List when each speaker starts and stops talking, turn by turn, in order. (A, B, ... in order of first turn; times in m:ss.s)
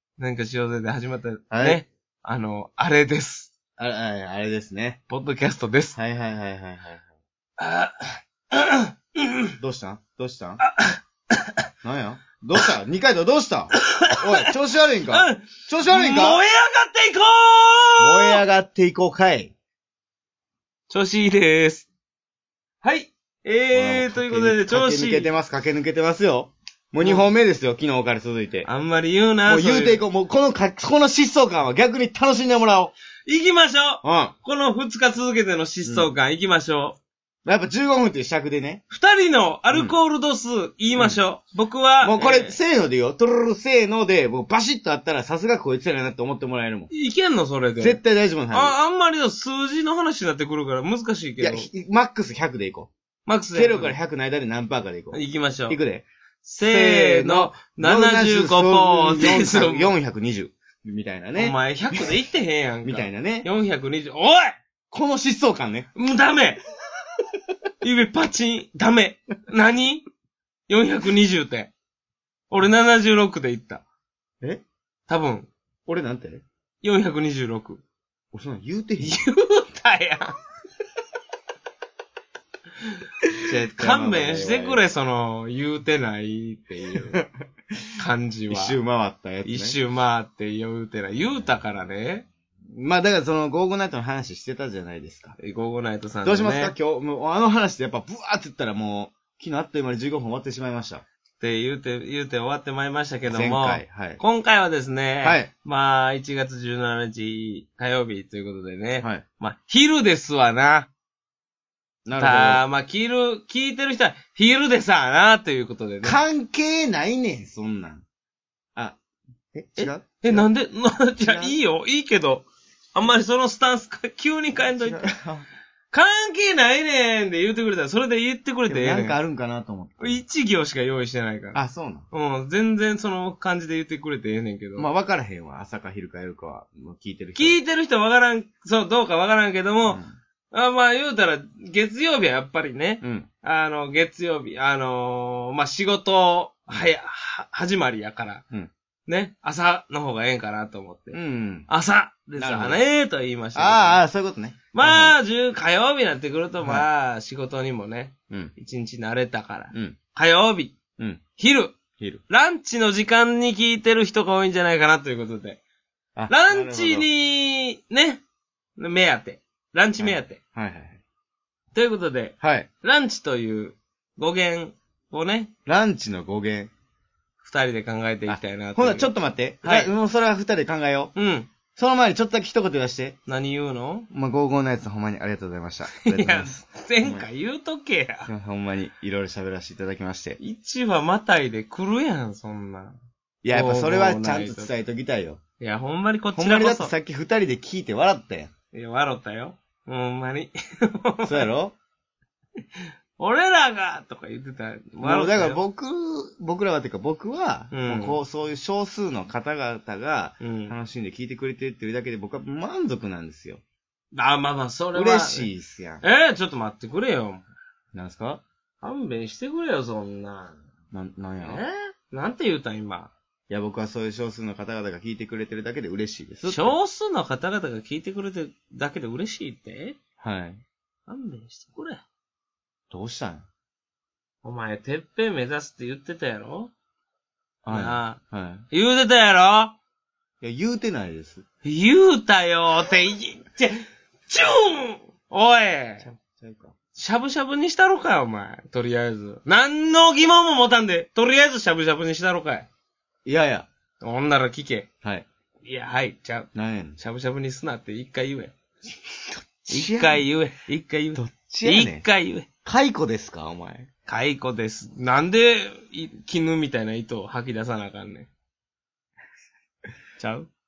0:00.2-0:03.5 A
0:01.5-0:01.8 B
0:03.8-0:05.0 B
0:05.1-0:06.0 A
0:06.0-0:07.0 B
0:07.6-0:09.5 A
0:09.6-0:10.6 B
0:10.6-0:11.6 A
0:11.8-0:16.4 B
0:13.8-0:14.5 A
0:15.1-0:18.4 A
0:18.0-0:19.5 B
0:20.9-0:21.9 A
0:22.8-0:25.3 A
0:23.7-0:28.7 B
0:27.0-0:27.2 A
0:28.6-0:30.0 A
0:29.5-0:32.9 B
0:33.3-0:37.0 A
0:34.0-0:34.3 B
0:35.8-0:36.1 B
0:37.4-0:38.8 B
0:38.9-0:42.6 A
0:39.7-0:40.0 B
0:42.0-0:46.9 B
0:46.9-0:48.0 A
0:47.8-0:48.7 B
0:48.5-0:51.7 A
0:51.4-0:52.9 B
0:53.2-0:54.0 A
0:53.5-0:56.1 B
0:55.1-0:55.8 A
0:56.4-0:59.9 A
0:56.6-1:02.1 B
1:01.4-1:04.6 A
1:02.8-1:03.5 B
1:04.9-1:05.9 B
1:05.9-1:06.6 A
1:07.8-1:10.0 A
1:10.7-1:11.7 A
1:12.5-1:13.8 A
1:15.1-1:15.5 A
1:15.8-1:16.4 B
1:16.8-1:17.8 A
1:18.3-1:19.2 B
1:19.0-1:20.3 A
1:23.4-1:24.8 B
1:23.4-1:27.2 A
1:27.0-1:27.9 B
1:28.0-1:28.8 A
1:28.5-1:29.8 B
1:29.4-1:32.3 A
1:32.7-1:35.4 B
1:35.4-1:36.7 A
1:36.2-1:41.0 B
1:41.4-1:50.9 A
1:43.3-1:44.2 B
1:45.2-1:45.5 B
1:52.0-1:52.6 B
1:52.2-1:56.2 A
1:56.0-1:58.0 B
1:59.5-2:00.5 B
1:59.8-2:05.1 A
2:01.2-2:01.6 B
2:04.6-2:05.5 B
2:05.9-2:09.2 A
2:08.7-2:10.2 B
2:10.0-2:11.6 A
2:11.5-2:12.1 B
2:12.1-2:14.9 A
2:14.8-2:17.6 B
2:17.3-2:28.4 A
2:19.8-2:20.1 B
2:23.0-2:23.3 B
2:29.1-2:31.2 A
2:31.1-2:31.7 B
2:31.7-2:34.0 A
2:32.4-2:32.8 B
2:33.5-2:35.2 B
2:34.7-2:40.8 A
2:36.6-2:36.9 B
2:41.4-2:41.8 A
2:42.3-2:45.6 A
2:46.1-2:47.1 B
2:46.3-2:48.2 A
2:48.8-2:50.4 A
2:50.0-2:51.0 B
2:51.7-2:55.5 A
2:52.4-2:52.7 B
2:55.6-2:56.7 B
2:57.4-2:59.1 A
2:58.3-3:01.1 B
2:59.6-2:59.9 A
3:01.1-3:01.5 A
3:01.8-3:03.2 B
3:03.3-3:04.1 A
3:04.1-3:07.2 B
3:05.9-3:08.3 A
3:08.3-3:10.4 B
3:10.4-3:13.0 A
3:13.4-3:15.4 B
3:13.5-3:14.7 A
3:15.6-3:16.9 A
3:16.3-3:18.5 B
3:18.7-3:21.5 A
3:21.2-3:21.7 B
3:23.2-3:25.6 A
3:25.0-3:33.6 B
3:27.7-3:28.2 A
3:30.4-3:30.8 A
3:34.1-3:35.5 A
3:34.9-3:36.0 B
3:36.0-3:37.4 A
3:37.9-3:38.4 B
3:38.8-3:40.6 A
3:40.9-3:41.6 B
3:41.4-3:43.1 A
3:43.5-3:46.7 B
3:46.4-3:50.0 A
3:50.2-3:50.6 B
3:51.1-3:52.0 A
3:52.9-3:53.5 B
3:54.4-3:56.7 A
3:57.6-3:58.6 B
3:57.7-3:58.2 A
3:58.7-3:59.8 A
4:00.4-4:01.4 B
4:01.6-4:06.1 A
4:06.0-4:06.7 B
4:07.0-4:12.7 A
4:13.2-4:13.7 B
4:14.0-4:14.9 A
4:15.6-4:18.5 A
4:16.5-4:17.0 B
4:19.7-4:20.2 B
4:19.7-4:22.5 A
4:21.1-4:22.0 B
4:22.6-4:23.9 B
4:24.1-4:28.3 A
4:30.2-4:30.5 A